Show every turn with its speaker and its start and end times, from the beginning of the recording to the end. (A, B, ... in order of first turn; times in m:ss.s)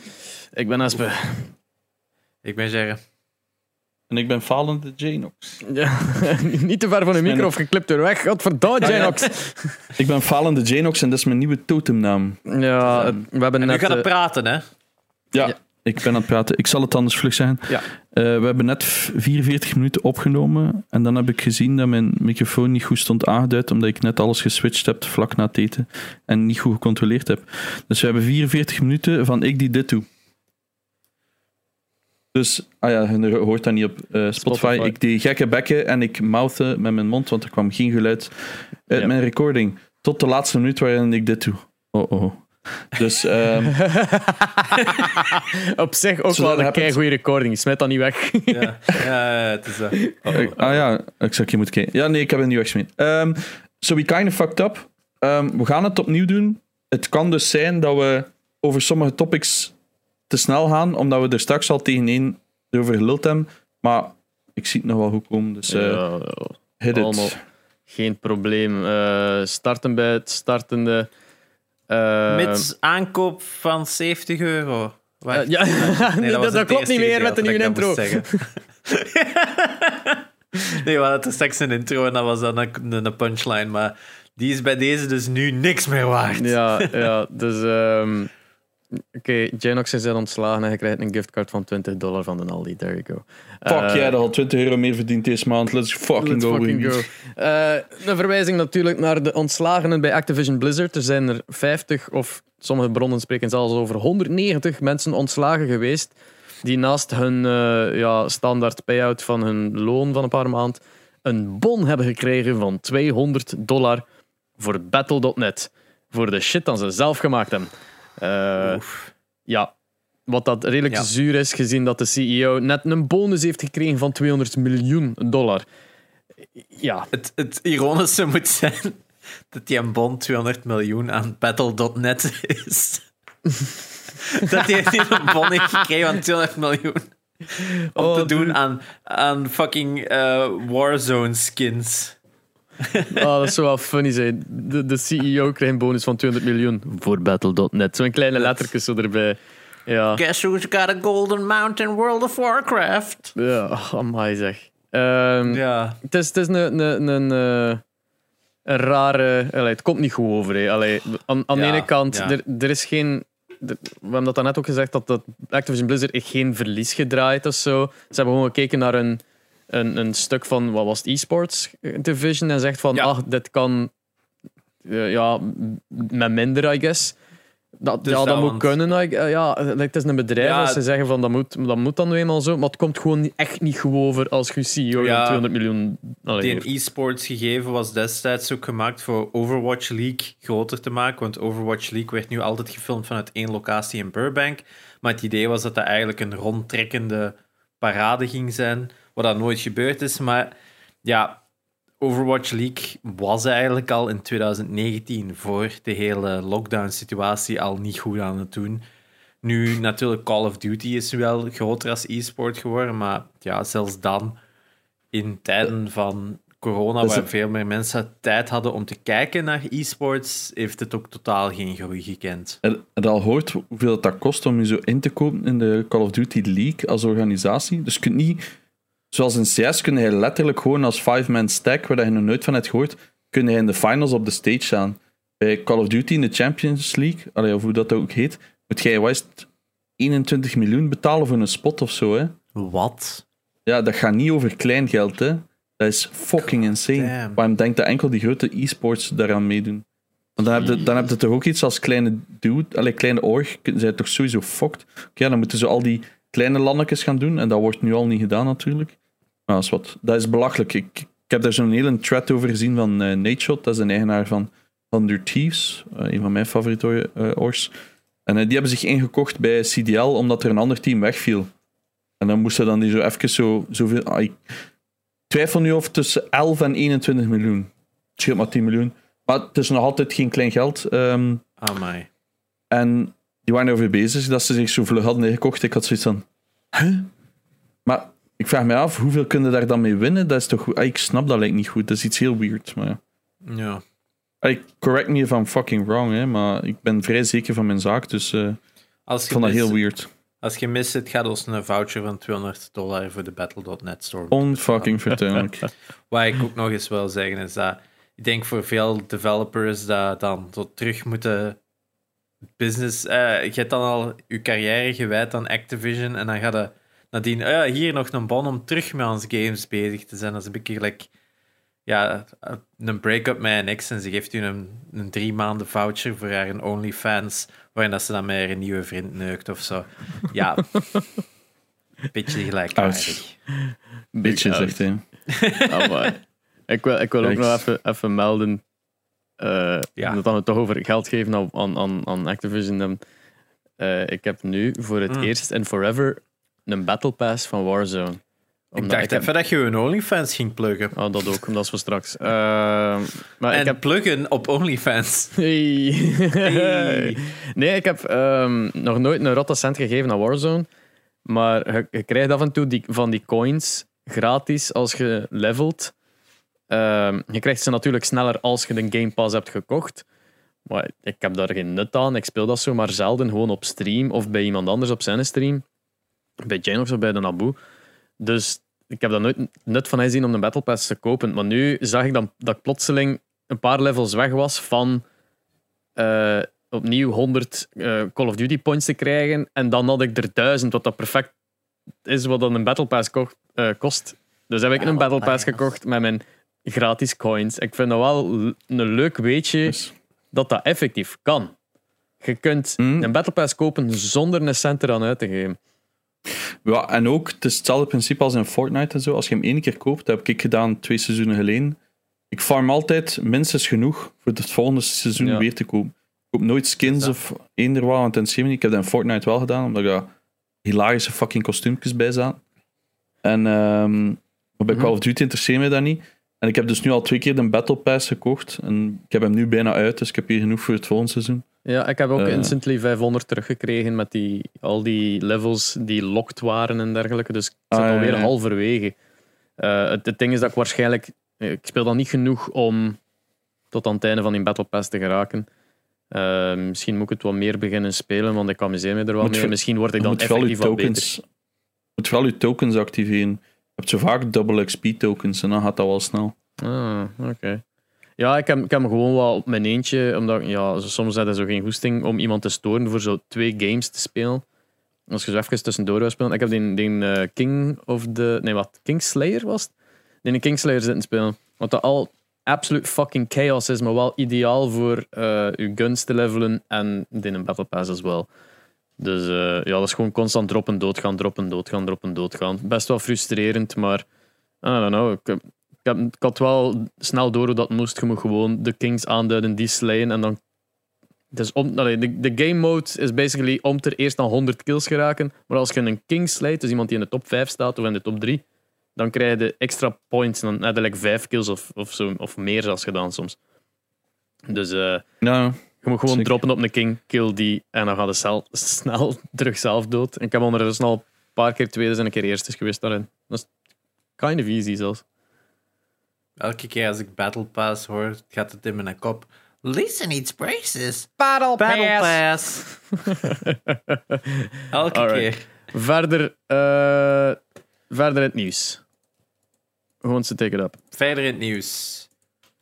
0:00.6-0:01.5 A
0:02.4-0:03.0 B
0:04.1-0:05.6 C
0:05.6-0:09.8 A
0:07.2-0:07.5 C
0:08.8-0:09.4 C
0:10.0-0:12.4 C
0:12.5-0:14.1 A
0:13.6-0:14.6 B
0:15.3-0:30.1 C
0:32.3-0:43.8 C
0:34.4-0:34.9 A
0:43.8-0:49.0 A
0:46.3-0:47.0 C
0:48.5-0:50.0 B
0:50.0-0:50.8 A
0:50.3-0:59.7 C
1:00.3-1:06.0 C
1:05.7-1:07.4 A
1:06.8-1:07.4 C
1:07.9-1:11.1 A
1:11.9-1:12.7 A
1:12.3-1:27.1 B
1:15.3-1:18.4 A
1:26.4-1:28.3 A
1:29.2-1:34.1 A
1:33.7-1:37.0 C
1:36.2-1:54.0 A
1:54.6-1:58.8 A
1:58.6-1:59.1 B
1:59.5-1:59.7 A
2:00.3-2:05.7 A
2:06.7-2:07.1 A
2:07.1-2:13.0 B
2:14.3-2:22.2 B
2:18.0-2:18.6 A
2:22.8-2:23.3 B
2:23.1-2:30.2 A
2:28.4-2:28.7 B
2:30.2-2:33.4 B
2:33.4-2:37.8 A
2:35.5-2:36.0 B
2:38.7-2:53.9 A
2:41.5-2:42.4 B
2:54.8-2:57.2 A
2:57.8-3:06.7 A
2:58.0-2:58.7 B
3:00.4-3:00.8 B
3:05.0-3:05.4 B
3:06.4-3:21.4 B
3:22.0-3:28.8 B
3:29.4-3:34.4 B
3:35.1-3:42.6 B
3:37.0-3:37.3 C
3:42.6-3:48.4 C
3:49.1-4:02.3 C
4:02.6-4:03.2 B
4:03.7-4:09.8 C
4:06.4-4:07.4 B
4:10.4-4:19.0 C
4:10.6-4:10.8 A
4:19.5-4:27.7 C
4:28.3-4:31.5 C
4:32.2-4:34.4 C
4:35.3-4:41.4 C
4:41.6-4:42.1 B
4:42.7-4:47.1 C
4:47.8-4:53.0 C
4:53.4-4:53.8 B
4:54.4-4:58.6 C
4:59.1-4:59.8 B
4:59.3-5:00.1 C
5:00.4-5:05.2 B
5:04.3-5:05.7 C
5:06.1-5:11.6 B
5:12.6-5:21.1 B
5:21.9-5:31.0 B
5:32.1-5:33.4 B
5:32.8-5:33.2 C
5:33.6-5:34.8 A
5:34.2-5:35.0 C
5:35.3-5:36.1 B
5:35.7-5:38.6 A
5:37.2-5:37.6 C
5:39.4-5:43.0 A
5:43.8-5:48.2 A
5:48.7-5:49.3 A
5:48.8-5:51.0 B
5:51.0-5:53.8 A
5:53.5-5:55.4 B
5:55.4-6:00.7 A
5:56.4-5:57.2 B
6:01.3-6:05.9 A
6:06.7-6:10.0 A
6:10.7-6:15.6 A
6:16.4-6:17.6 A
6:18.2-6:25.0 A
6:26.0-6:31.3 A
6:32.0-6:39.8 A
6:34.8-6:35.6 B
6:39.6-6:39.9 C
6:40.3-6:41.5 A
6:42.2-6:45.6 A
6:42.8-6:43.1 C
6:46.6-6:51.8 C
6:52.3-7:00.1 C
6:55.2-6:55.4 A
6:56.9-6:57.1 B
7:00.6-7:02.4 C
7:03.2-7:11.5 C
7:11.6-7:19.0 A
7:12.2-7:12.5 C
7:17.7-7:18.3 C
7:19.6-7:23.0 A
7:23.7-7:25.5 A
7:26.1-7:31.1 A
7:29.2-7:31.2 C
7:32.0-7:36.3 C
7:36.6-7:37.6 A
7:38.2-7:44.4 A
7:45.1-7:49.7 A
7:50.2-7:58.3 A
7:59.0-8:04.1 A
8:04.6-8:10.4 A
8:11.3-8:18.4 A
8:19.0-8:23.4 A
8:24.5-8:25.0 A
8:25.2-8:26.3 C
8:25.8-8:33.5 A
8:34.2-8:35.0 A
8:36.4-8:42.6 B
8:41.2-8:42.2 A
8:43.0-8:44.4 A
8:44.7-8:45.4 B
8:44.9-8:47.4 A
8:47.9-8:48.8 A
8:50.0-8:50.8 A
8:50.9-8:52.1 B